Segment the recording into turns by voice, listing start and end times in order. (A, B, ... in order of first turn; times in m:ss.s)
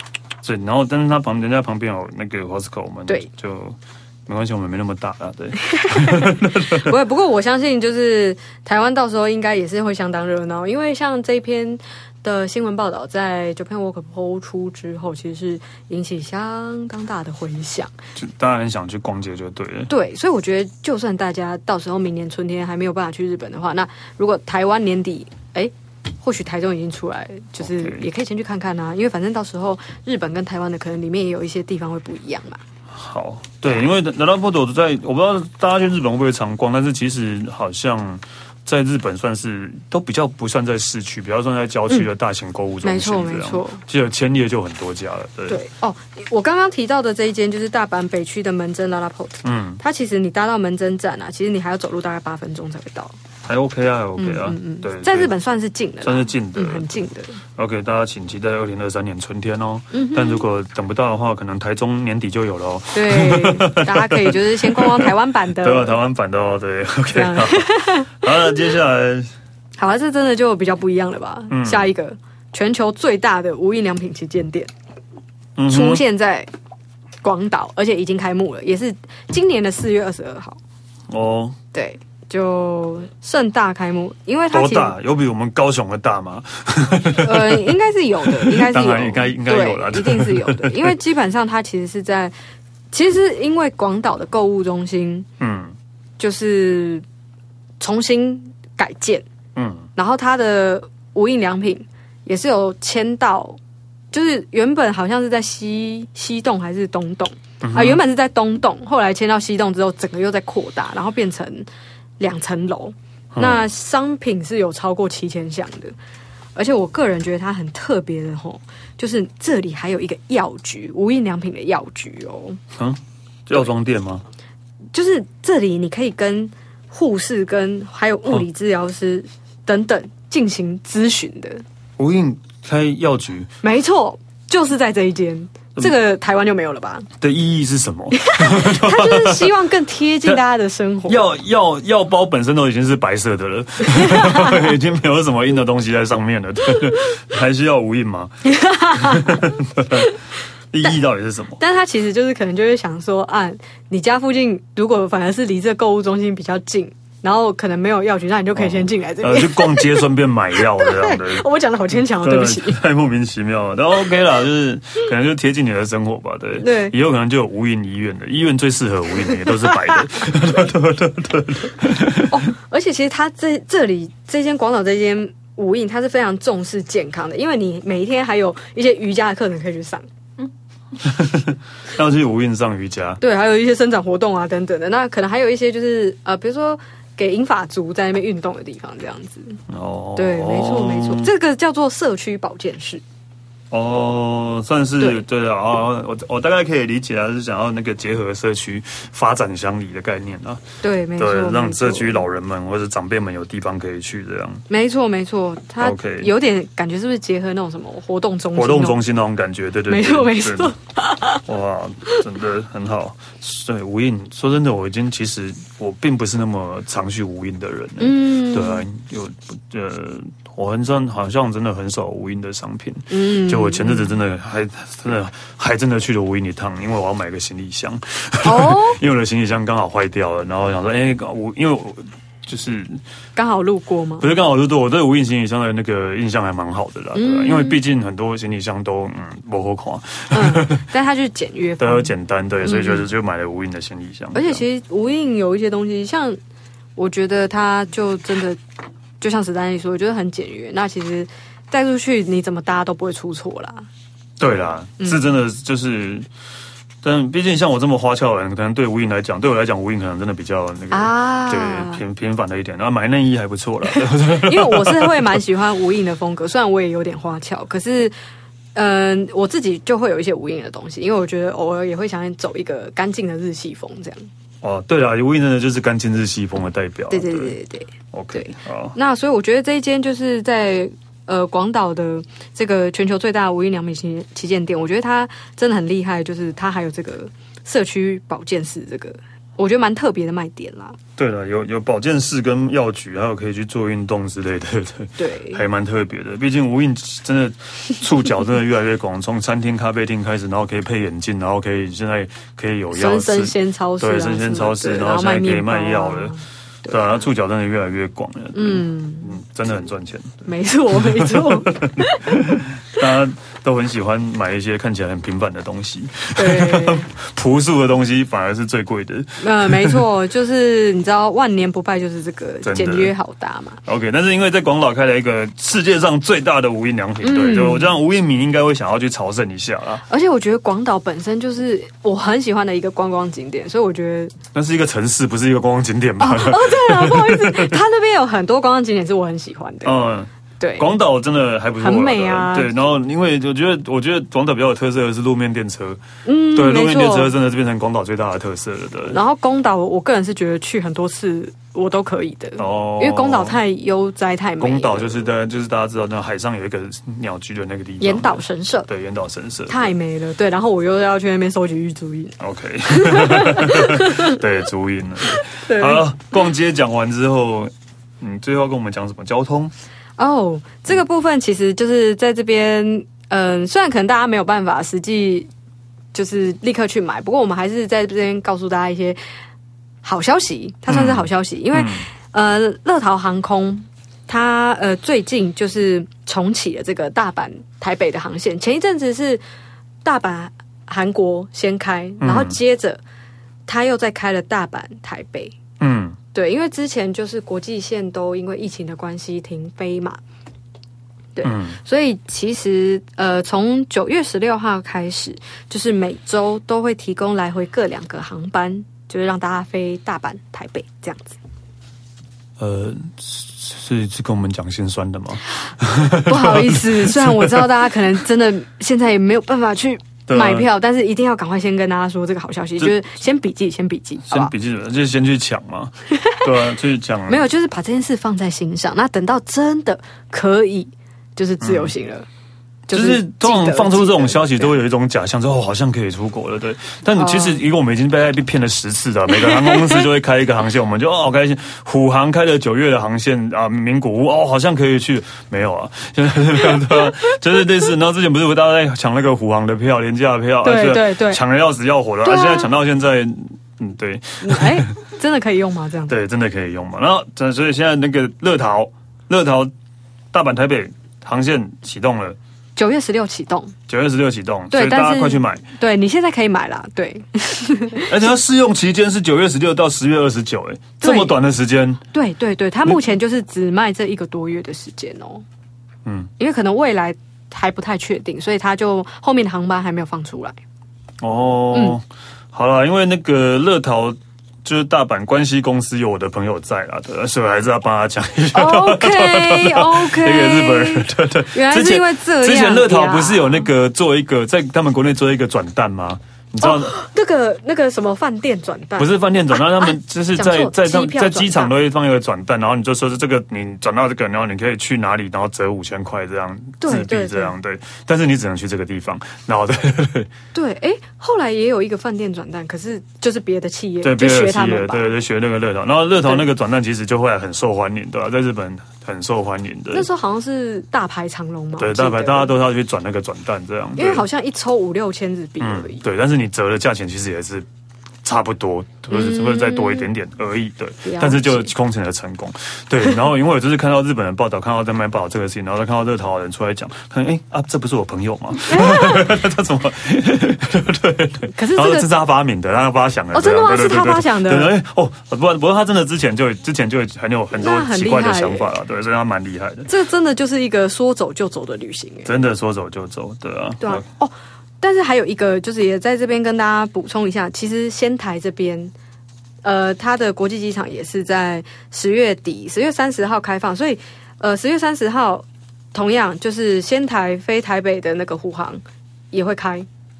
0:00.4-0:06.9 A
0:05.7-0:17.9 B
0:18.2-0:19.9 A
0:19.9-0:32.6 B
0:27.6-0:28.0 A
0:32.9-0:45.6 A
0:42.8-0:43.8 B
0:45.5-0:53.2 B
0:49.4-0:49.8 A
0:53.4-0:55.3 A
0:54.2-0:57.4 B
0:56.0-0:57.0 A
0:57.6-1:09.3 A
0:59.9-1:00.4 B
1:02.9-1:06.0 B
1:07.1-1:08.3 B
1:09.8-1:14.7 B
1:11.5-1:11.9 A
1:15.6-1:16.0 A
1:15.7-1:16.5 B
1:17.2-1:20.6 B
1:21.1-1:21.6 A
1:21.7-1:25.0 B
1:24.5-1:31.0 A
1:27.0-1:32.3 B
1:32.9-1:35.3 B
1:35.4-1:35.7 A
1:36.2-1:37.0 B
1:37.8-1:39.2 B
1:39.6-1:39.9 A
1:40.0-1:43.6 B
1:44.1-1:51.7 B
1:47.6-1:48.0 A
1:52.2-1:55.9 B
1:53.3-1:53.6 A
1:56.5-2:02.6 B
2:02.8-2:04.2 A
2:04.9-2:11.6 B
2:12.0-2:13.5 A
2:13.6-2:17.1 B
2:17.2-2:19.5 A
2:18.1-2:21.2 B
2:21.0-2:28.3 A
2:23.9-2:24.7 B
2:28.4-2:30.1 B
2:28.9-2:30.2 A
2:30.7-2:31.6 A
2:31.6-2:42.8 B
2:38.6-2:52.5 A
2:46.6-2:46.9 B
2:52.3-3:00.0 B
3:01.0-3:03.2 A
3:03.2-3:09.6 B
3:09.7-3:11.3 A
3:10.2-3:13.0 B
3:13.7-3:20.6 A
3:20.8-3:22.2 B
3:21.2-3:24.6 A
3:24.7-3:29.0 B
3:25.8-3:26.3 A
3:28.5-3:30.7 A
3:29.9-3:31.4 B
3:31.4-3:53.0 A
3:38.0-3:38.8 B
3:43.1-3:44.2 B
3:48.4-3:49.0 B
3:53.4-3:54.3 B
3:54.2-4:00.8 A
3:57.1-3:57.8 B
4:00.3-4:02.1 B
4:01.8-4:04.6 A
4:02.6-4:03.1 B
4:04.3-4:06.4 B
4:07.0-4:08.6 B
4:09.2-4:13.9 B
4:14.4-4:16.3 A
4:15.0-4:15.2 B
4:17.0-4:25.4 A
4:20.9-4:22.0 B
4:23.9-4:28.1 B
4:28.7-4:34.3 B
4:34.6-4:37.6 A
4:37.1-4:51.0 B
4:38.1-4:39.0 A
4:51.2-5:06.3 A
4:55.2-4:55.6 B
5:02.9-5:07.2 B
5:06.9-5:20.0 A
5:08.5-5:09.4 B
5:10.4-5:12.6 B
5:16.4-5:17.1 B
5:19.4-5:23.8 B
5:22.6-5:23.1 A
5:23.8-5:30.0 A
5:27.2-5:28.0 B
5:30.1-5:34.4 B
5:34.5-5:37.8 A
5:36.2-5:40.1 B
5:39.8-5:49.2 A
5:40.6-5:40.9 B
5:41.8-5:42.9 B
5:46.2-5:47.3 B
5:49.1-5:55.2 B
5:52.6-5:53.6 A
5:54.6-5:59.9 A
5:58.0-5:58.9 B
5:59.7-6:02.3 B
6:02.4-6:09.7 A
6:02.9-6:04.4 B
6:05.4-6:06.0 B
6:10.2-6:15.5 B
6:16.1-6:19.2 B
6:20.0-6:29.4 B
6:20.9-6:22.1 A
6:30.0-6:33.0 B
6:32.2-6:32.6 A
6:33.6-6:35.6 B
6:35.8-6:36.2 A
6:36.3-6:40.2 B
6:41.3-6:51.4 B
6:41.4-6:41.8 A
6:52.6-6:57.9 A
6:56.0-7:04.5 B
7:00.3-7:00.7 A
7:04.2-7:07.4 A
7:07.3-7:12.3 B
7:11.6-7:11.9 A
7:12.9-7:14.7 B
7:12.9-7:34.9 A
7:17.2-7:17.6 B
7:19.3-7:20.1 B
7:26.8-7:27.0 B
7:30.6-7:31.4 B
7:32.2-7:32.7 B
7:34.4-7:36.1 B
7:36.1-7:39.7 A
7:40.3-7:42.4 A
7:42.8-7:43.7 B
7:43.9-7:45.6 A
7:44.7-7:48.1 B
7:48.0-7:52.0 A
7:51.0-7:51.4 B
7:52.1-7:55.4 B
7:56.0-7:56.3 A
7:56.4-8:00.6 B
8:01.2-8:17.0 A
8:08.5-8:13.7 B
8:16.6-8:21.7 B
8:19.0-8:30.3 A
8:26.8-8:27.5 B
8:30.5-8:35.1 B
8:34.0-8:40.0 A
8:39.9-8:42.6 B
8:41.8-8:44.2 A
8:44.0-8:46.0 B
8:45.6-8:47.7 A
8:48.2-9:09.9 A
8:49.1-8:50.1 B
8:51.0-8:51.7 B
8:58.7-8:59.3 B
9:01.5-9:02.1 B
9:03.3-9:04.7 B
9:07.5-9:08.7 B
9:09.9-9:12.3 B
9:12.2-9:14.0 A
9:13.8-9:18.9 B
9:19.6-9:29.9 B